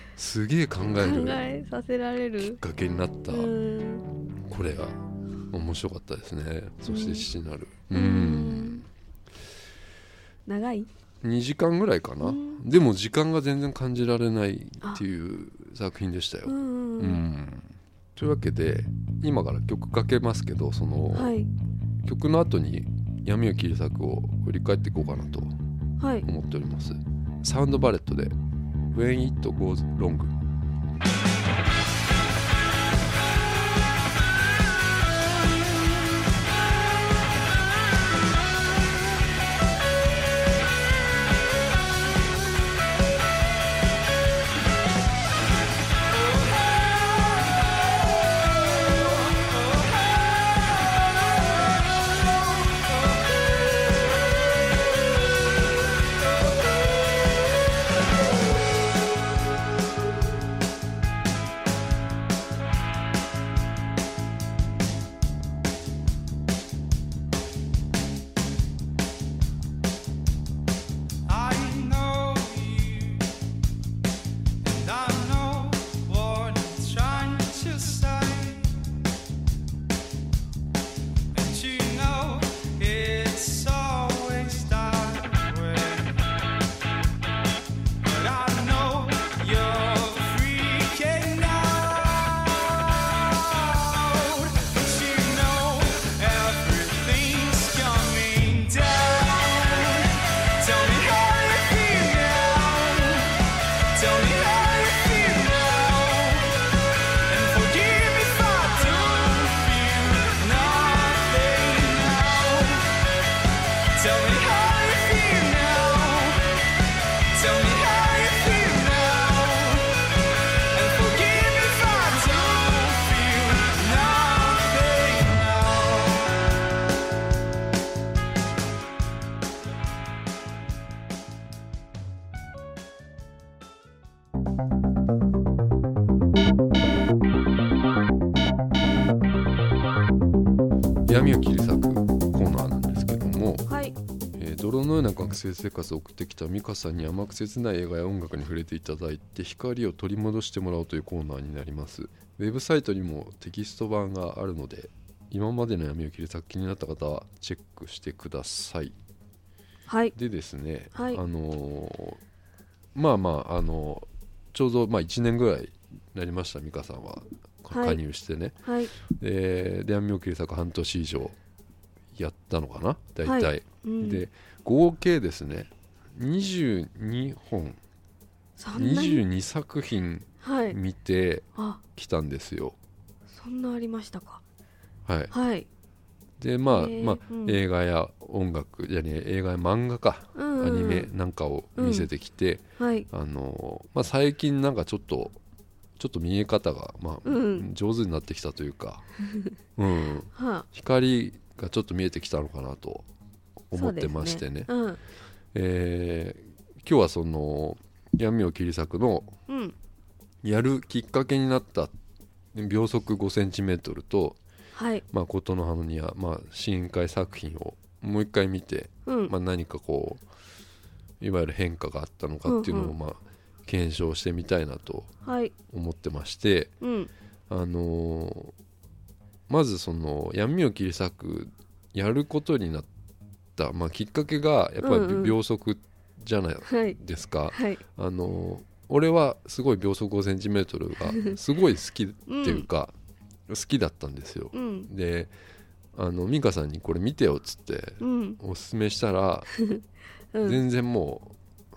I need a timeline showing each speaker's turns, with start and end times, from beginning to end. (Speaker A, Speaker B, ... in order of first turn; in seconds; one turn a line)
Speaker A: 0.1-1.4
Speaker B: 1.0-2.6
Speaker A: 2.4-3.5
Speaker B: 3.3-4.0
Speaker A: 4.5-5.0
Speaker A: 5.5-8.9
Speaker B: 6.9-7.3
Speaker B: 7.9-8.8
Speaker B: 10.4-10.9
Speaker A: 11.2-21.4
Speaker B: 12.2-12.6
Speaker B: 16.4-17.2
Speaker B: 21.1-21.5
Speaker A: 22.0-25.5
Speaker B: 26.0-26.2
Speaker A: 26.2-28.3
Speaker A: 28.9-30.3
Speaker C: 46.1-47.8
Speaker C: 49.4-49.7
Speaker C: 71.3-73.3
Speaker C: 74.6-78.7
Speaker C: 81.3-86.2
Speaker C: 88.0-106.5
Speaker C: 107.3-113.0
Speaker C: 113.9-116.5
Speaker C: 117.3-120.0
Speaker C: 120.7-126.4
Speaker A: 141.1-143.7
Speaker B: 143.7-143.9
Speaker A: 144.4-158.9
Speaker B: 159.9-160.1
Speaker A: 160.1-162.2
Speaker B: 160.9-161.2
Speaker A: 162.9-168.6
Speaker B: 167.7-168.0
Speaker B: 168.6-168.9
Speaker A: 169.1-171.4
Speaker A: 172.2-177.8
Speaker B: 173.2-174.2
Speaker B: 178.6-179.2
Speaker A: 178.7-182.8
Speaker B: 180.4-180.8
Speaker B: 181.6-181.8
Speaker B: 183.3-184.4
Speaker A: 185.1-185.3
Speaker B: 185.3-185.7
Speaker A: 186.4-195.4
Speaker B: 186.7-187.6
Speaker B: 190.3-191.1
Speaker B: 191.8-192.1
Speaker B: 192.8-193.1
Speaker A: 196.0-199.1
Speaker B: 197.2-197.7
Speaker A: 199.8-203.1
Speaker B: 200.3-200.7
Speaker A: 203.7-204.7
Speaker B: 203.7-205.0
Speaker A: 205.5-209.3
Speaker B: 209.5-209.7
Speaker A: 210.4-211.9
Speaker A: 212.5-214.4
Speaker B: 214.7-215.0
Speaker A: 215.1-220.2
Speaker B: 219.1-219.3
Speaker A: 221.2-225.1
Speaker B: 222.4-222.9
Speaker B: 225.2-225.5
Speaker A: 225.7-226.7
Speaker B: 226.8-227.1
Speaker A: 227.5-228.5
Speaker A: 229.5-232.9
Speaker A: 233.6-242.9
Speaker B: 234.8-235.4
Speaker B: 236.7-237.0
Speaker B: 237.5-237.8
Speaker B: 241.1-241.3
Speaker B: 242.3-242.7
Speaker A: 243.5-245.3
Speaker B: 244.5-244.9
Speaker A: 245.9-249.5
Speaker B: 248.0-248.4
Speaker B: 249.6-250.6
Speaker A: 250.4-251.3